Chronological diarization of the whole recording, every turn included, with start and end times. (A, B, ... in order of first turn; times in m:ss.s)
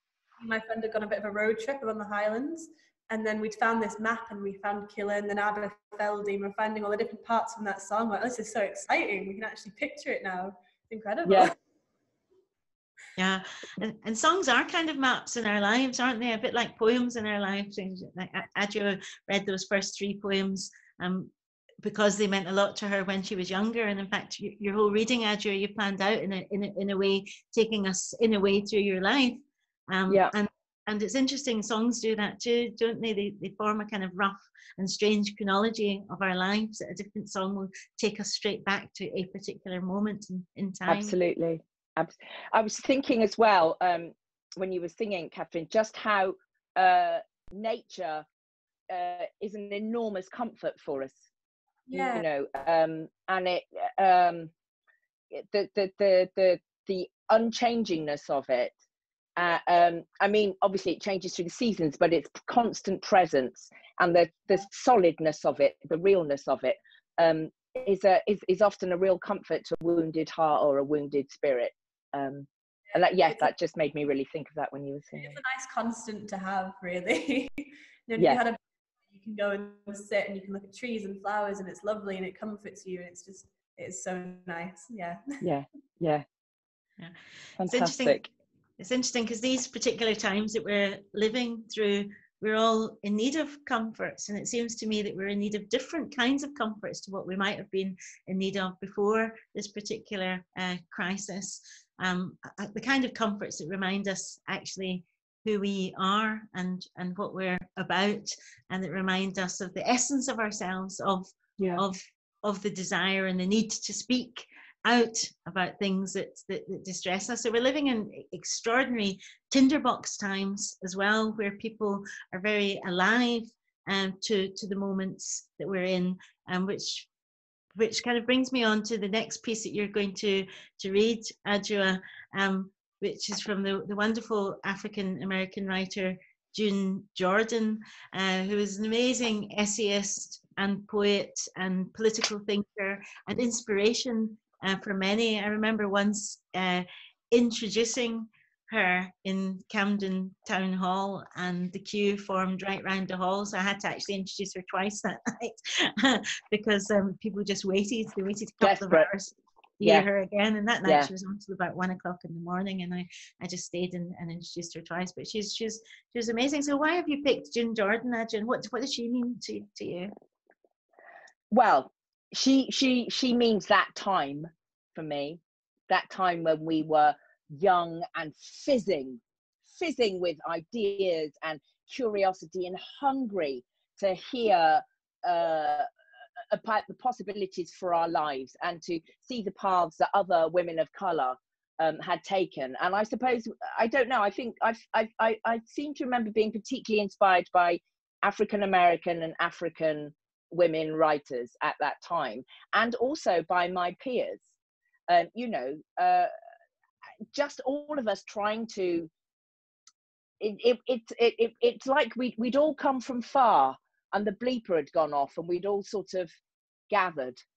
0:00.4-0:11.5 A
0:11.2-0:11.5 B
0:13.2-0:41.1 C
0:40.9-0:48.2 B
0:48.9-0:51.2 B
0:51.9-0:52.2 A
0:51.9-0:54.5 B
0:55.3-0:58.7 B
0:59.4-1:15.4 B
1:15.2-1:18.6 A
1:19.1-1:25.4 A
1:25.4-1:26.2 B
1:27.0-2:07.1 C
1:27.6-1:28.2 B
1:51.6-1:51.8 B
2:07.8-2:50.1 C
2:38.6-2:39.1 B
2:40.8-2:41.1 B
2:51.5-3:05.9 B
3:06.5-3:24.4 B
3:25.1-3:26.3 B
3:27.3-3:29.1 B
3:30.4-3:36.3 B
3:36.9-3:37.4 B